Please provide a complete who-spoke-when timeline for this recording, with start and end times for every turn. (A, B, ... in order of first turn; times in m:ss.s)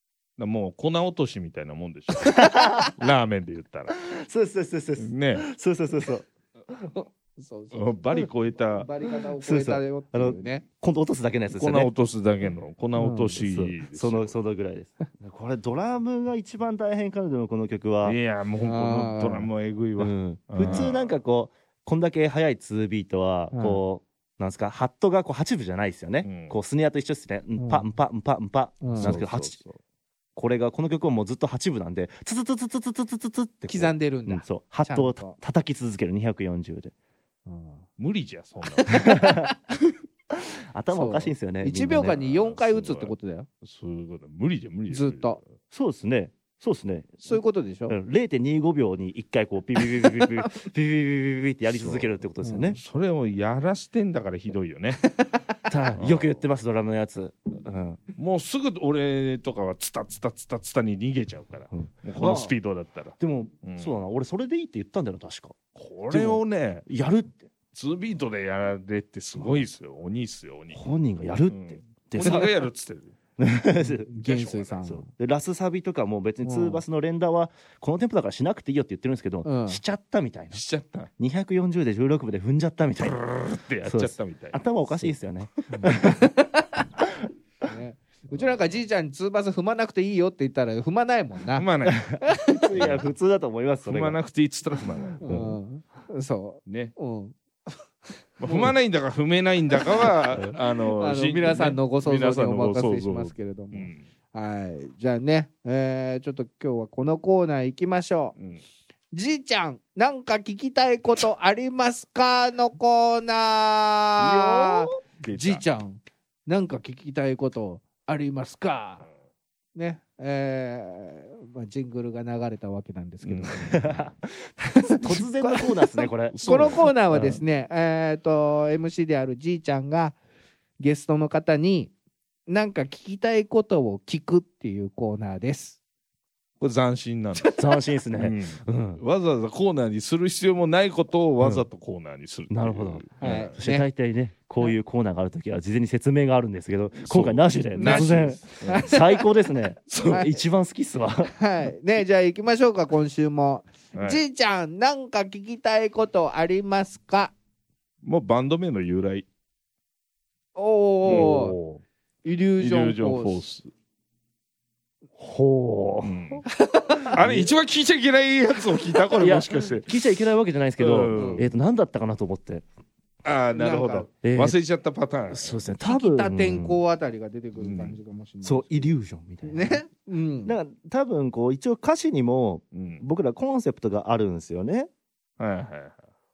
0:00.4-0:03.9 A
0:02.2-0:02.9 B
0:04.0-0:06.3 B
0:05.0-0:05.4 A
0:06.9-0:10.6 C
0:07.7-0:08.9 A
0:09.4-0:11.9 B
0:11.5-0:14.3 A
0:13.0-0:13.3 C
0:13.3-0:18.2 B
0:18.0-0:21.1 A
0:18.6-0:19.5 C
0:20.0-0:29.6 B
0:23.5-0:23.8 C
0:26.2-0:26.6 A
0:27.6-0:27.9 C
0:28.8-0:29.1 C
0:29.0-0:29.8 A
0:30.4-0:36.9 B
0:33.7-0:35.4 C
0:37.4-0:37.9 C
0:38.0-0:39.1 A
0:38.9-0:39.5 C
0:38.9-0:39.5 B
0:40.3-0:42.2 B
0:40.9-0:43.5 C
0:42.1-0:45.5 A
0:44.9-0:45.4 C
0:45.7-0:52.8 B
0:47.2-0:48.0 C
0:51.8-0:52.1 A
0:52.4-0:52.8 C
0:52.7-0:55.0 A
0:55.7-0:58.0 B
0:56.0-0:56.4 A
0:58.2-1:03.9 A
1:01.7-1:02.5 B
1:03.2-1:05.6 B
1:05.8-1:06.8 A
1:06.1-1:07.5 B
1:07.7-1:10.8 A
1:10.7-1:12.6 B
1:11.5-1:13.1 A
1:13.4-1:14.1 B
1:13.8-1:15.1 C
1:14.2-1:14.8 A
1:14.8-1:20.6 B
1:16.4-1:16.8 C
1:19.4-1:19.8 C
1:20.5-1:21.1 A
1:21.2-1:23.3 B
1:23.0-1:24.6 A
1:23.8-1:26.3 B
1:25.7-1:26.8 C
1:27.7-1:31.6 C
1:31.5-1:33.1 A
1:31.9-1:34.2 B
1:32.2-1:32.7 C
1:33.8-1:35.3 A
1:35.2-1:37.8 C
1:35.2-1:35.6 B
1:36.6-1:36.9 A
1:38.4-1:44.1 A
1:38.4-1:38.7 C
1:40.0-1:48.4 C
1:48.4-1:48.6 A
1:49.1-1:59.1 C
1:54.2-1:54.9 B
1:55.2-1:55.6 A
1:59.8-2:03.8 C
2:03.2-2:04.0 A
2:03.6-2:06.8 B
2:04.8-2:10.2 C
2:06.3-2:07.4 A
2:10.8-2:11.9 C
2:12.5-2:15.8 C
2:16.6-2:17.6 A
2:17.5-2:19.0 B
2:18.1-2:23.5 A
2:21.4-2:21.7 B
2:22.5-2:31.3 B
2:23.2-2:23.9 C
2:27.0-2:28.9 A
2:27.8-2:29.3 C
2:29.9-2:30.3 A
2:31.4-2:37.3 C
2:33.9-2:34.2 A
2:38.0-2:39.3 A
2:40.6-2:41.6 C
2:41.0-2:41.3 A
2:41.1-2:41.8 B
2:42.2-2:43.4 C
2:42.6-2:43.7 A
2:45.2-2:46.4 B
2:46.0-2:46.4 A
2:46.5-2:47.2 C
2:47.1-2:49.9 A
2:47.1-2:47.5 B
2:49.2-2:52.6 B
2:50.8-2:51.5 A
2:51.1-2:51.4 C
2:53.2-2:55.6 A
2:53.5-2:54.1 C
2:54.2-2:54.6 B
2:55.3-2:56.8 B
2:55.8-3:00.6 C
2:57.6-2:58.0 A
2:58.4-2:59.8 B
3:00.4-3:04.9 B
3:02.7-3:03.0 A
3:05.4-3:05.9 A